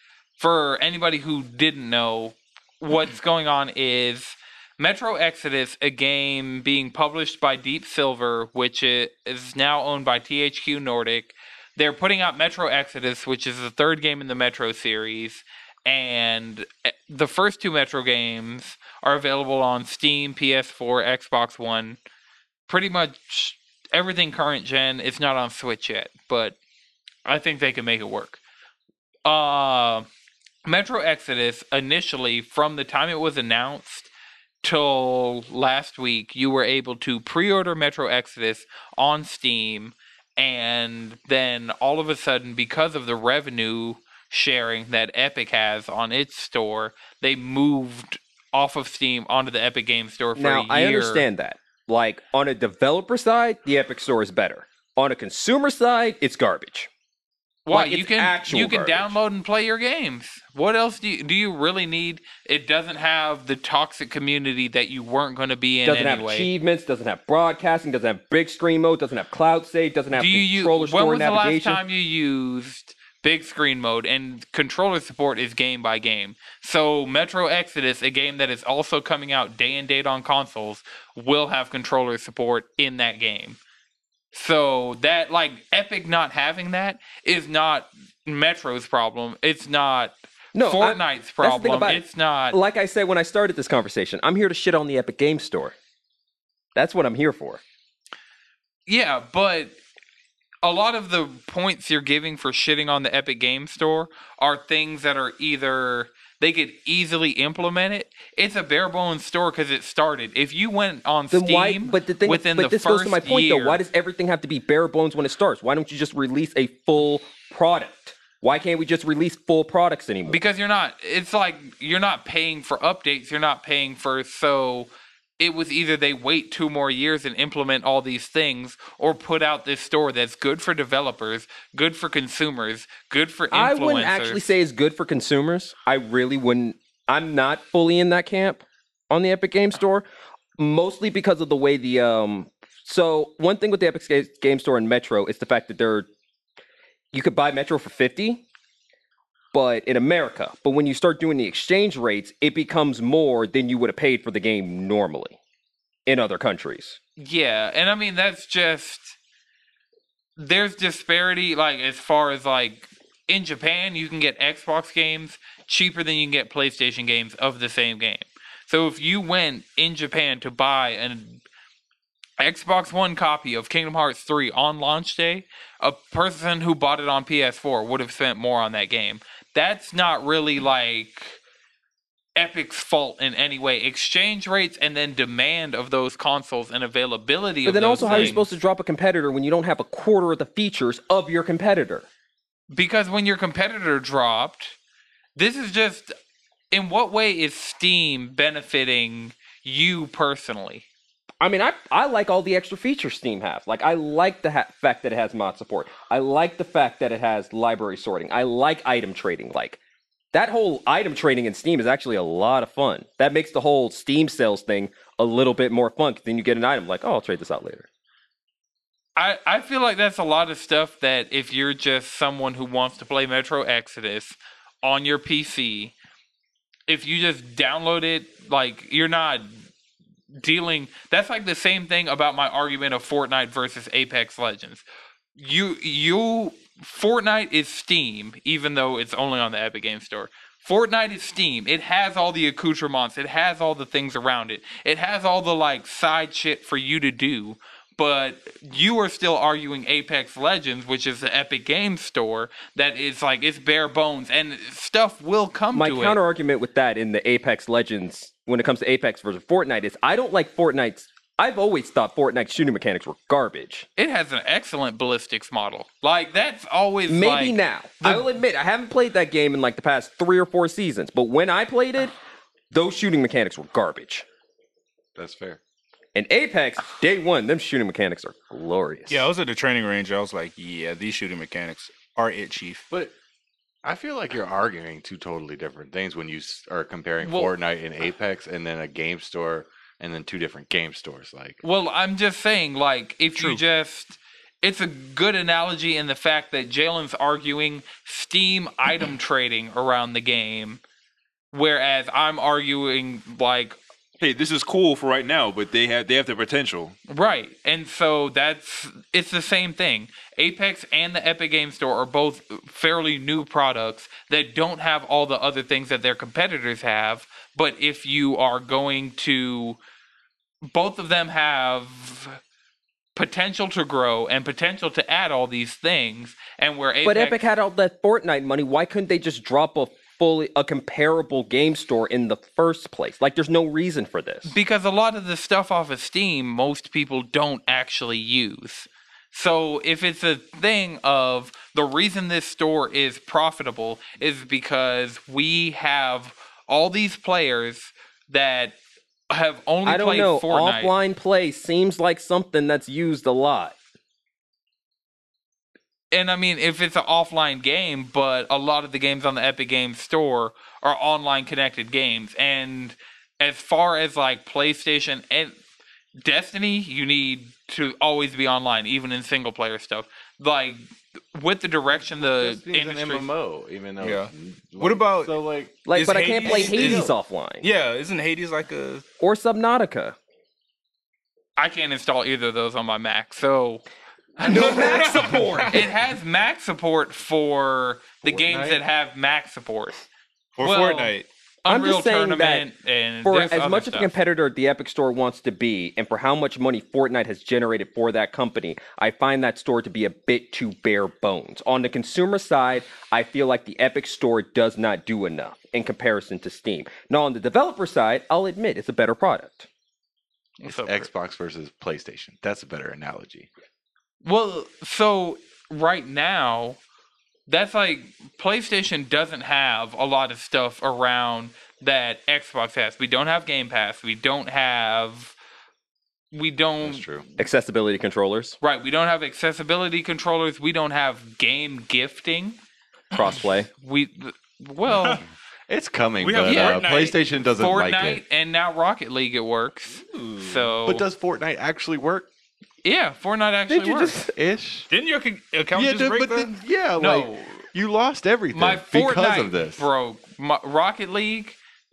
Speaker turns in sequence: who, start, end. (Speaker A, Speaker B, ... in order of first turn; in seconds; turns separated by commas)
Speaker A: 0.4-22.0, Speaker A: 22.7-26.6, Speaker A: 27.2-28.4, Speaker A: 29.2-30.1, Speaker A: 30.6-34.1, Speaker A: 34.6-51.3, Speaker B: 50.4-56.9, Speaker A: 57.7-66.5, Speaker B: 57.7-59.1, Speaker B: 65.8-71.8, Speaker A: 70.1-83.6, Speaker A: 84.3-92.6, Speaker B: 90.5-95.8, Speaker B: 96.8-97.6, Speaker A: 98.9-99.8, Speaker A: 100.6-113.8, Speaker B: 111.3-120.4, Speaker A: 120.3-134.5, Speaker B: 133.5-140.1, Speaker B: 140.6-146.1, Speaker B: 147.1-148.4, Speaker B: 149.5-155.4, Speaker B: 156.1-157.0, Speaker A: 157.2-159.2, Speaker A: 160.4-171.4, Speaker A: 172.4-181.4, Speaker A: 182.4-188.5, Speaker B: 187.7-192.1, Speaker C: 188.0-188.4, Speaker A: 192.7-194.8, Speaker A: 195.4-196.1, Speaker A: 196.7-200.8, Speaker B: 201.4-209.8, Speaker B: 210.3-217.9, Speaker A: 219.2-225.9, Speaker A: 226.9-229.6, Speaker A: 230.3-234.8, Speaker A: 235.4-256.2, Speaker B: 255.7-263.9, Speaker A: 264.0-268.3, Speaker B: 267.1-272.1, Speaker B: 272.7-274.2, Speaker C: 275.2-275.6, Speaker B: 276.1-279.3, Speaker D: 279.1-282.9, Speaker C: 283.8-291.6, Speaker A: 287.2-287.5, Speaker A: 291.6-300.8, Speaker A: 301.5-303.8, Speaker E: 304.2-307.0, Speaker A: 307.1-319.8, Speaker A: 320.7-322.4, Speaker A: 323.1-327.4, Speaker B: 327.0-334.5, Speaker A: 334.4-348.8, Speaker A: 349.3-350.9, Speaker B: 349.9-353.8, Speaker A: 356.1-365.6, Speaker A: 366.2-373.3, Speaker C: 372.0-375.8, Speaker D: 374.0-375.3, Speaker B: 375.9-377.6, Speaker D: 375.9-379.0, Speaker C: 376.4-377.1, Speaker B: 379.2-380.2, Speaker A: 381.6-383.9, Speaker A: 384.4-390.0, Speaker B: 384.4-385.8, Speaker D: 384.5-385.8, Speaker C: 388.2-388.8, Speaker D: 390.6-391.3, Speaker A: 390.6-394.1, Speaker B: 391.7-392.7, Speaker B: 393.2-409.7, Speaker A: 410.6-411.1, Speaker C: 410.6-413.5, Speaker A: 414.2-416.8, Speaker A: 417.5-425.4, Speaker A: 426.3-427.2, Speaker C: 426.8-427.2, Speaker B: 427.4-428.6, Speaker A: 428.6-432.6, Speaker B: 433.1-433.7, Speaker A: 433.7-435.2, Speaker C: 434.9-438.2, Speaker D: 436.2-437.2, Speaker A: 436.4-436.9, Speaker A: 437.6-441.1, Speaker C: 440.5-442.3, Speaker A: 442.8-444.2, Speaker B: 443.7-444.3, Speaker C: 444.3-444.9, Speaker D: 444.9-446.5, Speaker C: 445.7-449.9, Speaker A: 447.0-447.6, Speaker A: 448.5-451.6